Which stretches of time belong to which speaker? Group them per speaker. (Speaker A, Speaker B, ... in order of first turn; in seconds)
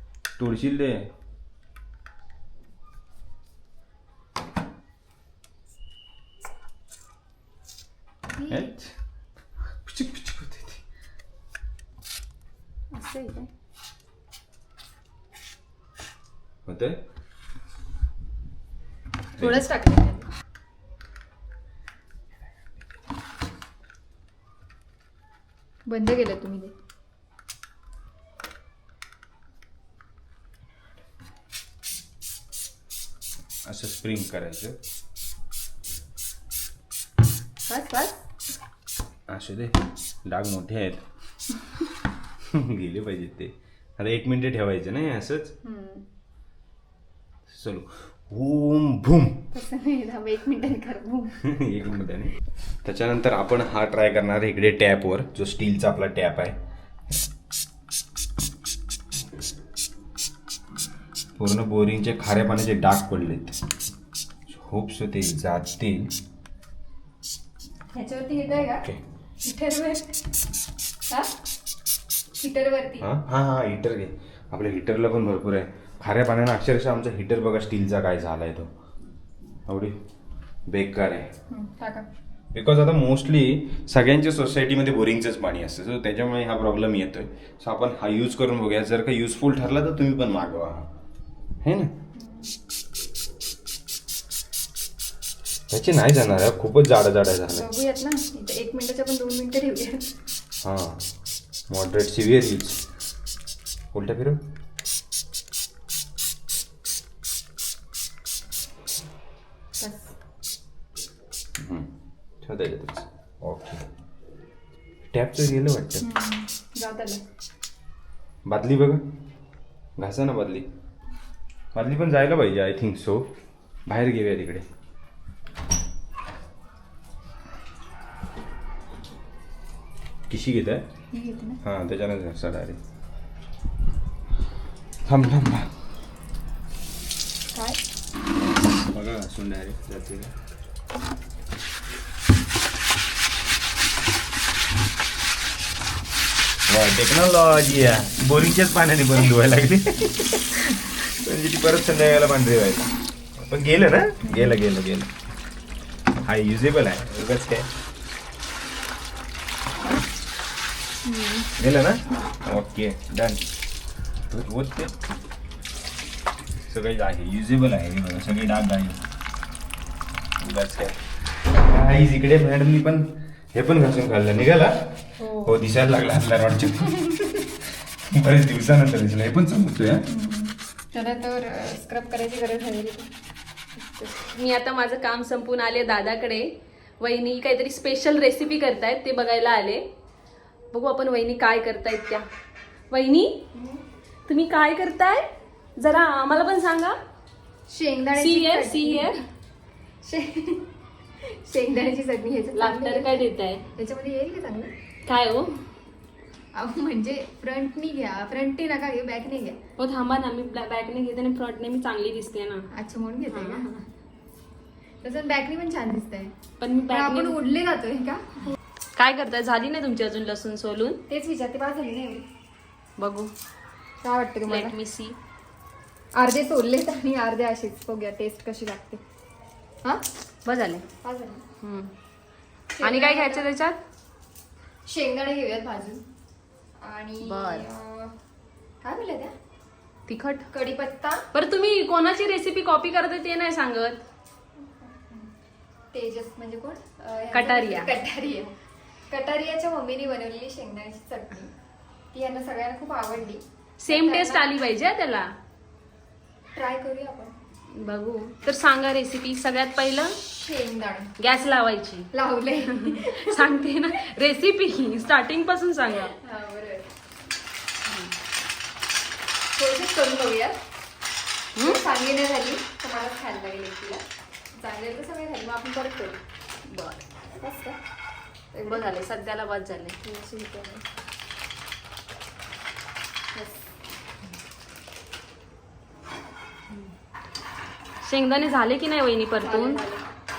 Speaker A: 0.4-1.0, 8.5-8.9, 9.8-10.8, 16.6-16.9, 19.4-19.7, 33.7-34.8, 39.3-41.0, 42.5-45.5, 47.5-49.5, 51.4-52.3, 52.8-56.5, 61.4-63.5, 64.5-66.1, 73.0-78.7, 79.7-80.0, 80.7-81.3, 82.5-90.9, 91.6-91.9, 95.7-97.7, 100.6-101.1, 101.7-102.8, 103.9-104.4, 111.6-111.9, 112.4-113.8, 115.1-116.0, 118.5-119.0, 120.0-120.7, 121.7-123.3, 123.9-124.6, 130.3-130.8, 131.6-132.8, 135.1-135.7, 138.9-140.3, 146.7-155.1, 156.2-157.7, 161.6-163.5, 164.3-164.9, 166.7-169.0, 170.4-171.0, 171.5-174.7, 175.4-177.5, 178.1-180.1
Speaker B: 8.3-8.7, 19.4-20.3, 25.9-26.7, 37.7-38.2, 45.6-46.0, 49.5-51.4, 67.9-68.8, 69.4-70.1, 72.4-73.1, 81.5-82.1, 92.1-92.5, 97.5-100.1, 109.8-110.1, 116.0-117.2, 131.1-131.6, 137.5-137.8, 154.2-154.6, 161.0-161.5, 175.2-175.5, 180.1-183.1, 183.8-184.2, 193.5-193.8, 197.7-199.2, 200.0-200.7, 201.2-204.7, 206.5-209.6, 212.7-213.7, 215.0-216.3, 216.9-218.5, 221.1-222.2, 224.0-224.8, 226.2-229.0, 231.0-231.4, 232.7-233.5, 234.8-236.0, 236.8-238.1, 238.8-239.3, 240.5-241.2, 244.6-245.3, 245.9-248.5, 249.1-251.5, 252.1-254.5, 256.5-257.3, 260.1-261.1, 262.1-263.5, 266.1-266.9, 269.5-270.6, 271.6-274.0, 274.6-276.2, 277.4-277.8, 278.5-278.9, 280.0-280.8, 283.3-283.7, 289.4-290.1
Speaker C: 12.9-13.4, 184.3-186.5, 187.0-189.8, 190.7-192.2, 192.9-193.3, 194.3-195.3, 195.8-197.0, 198.2-199.2, 202.5-203.6, 205.1-205.6, 209.8-212.7, 213.3-213.7, 216.6-217.3, 219.0-221.0, 223.0-223.3, 224.5-225.2, 230.4-230.8, 231.6-231.9, 232.8-233.8, 237.2-237.7, 240.1-240.4, 241.3-244.0, 247.3-247.9, 253.8-255.3, 257.8-260.1, 261.2-262.1, 262.7-266.1, 267.9-268.1, 276.7-277.0, 278.6-279.9, 288.0-289.8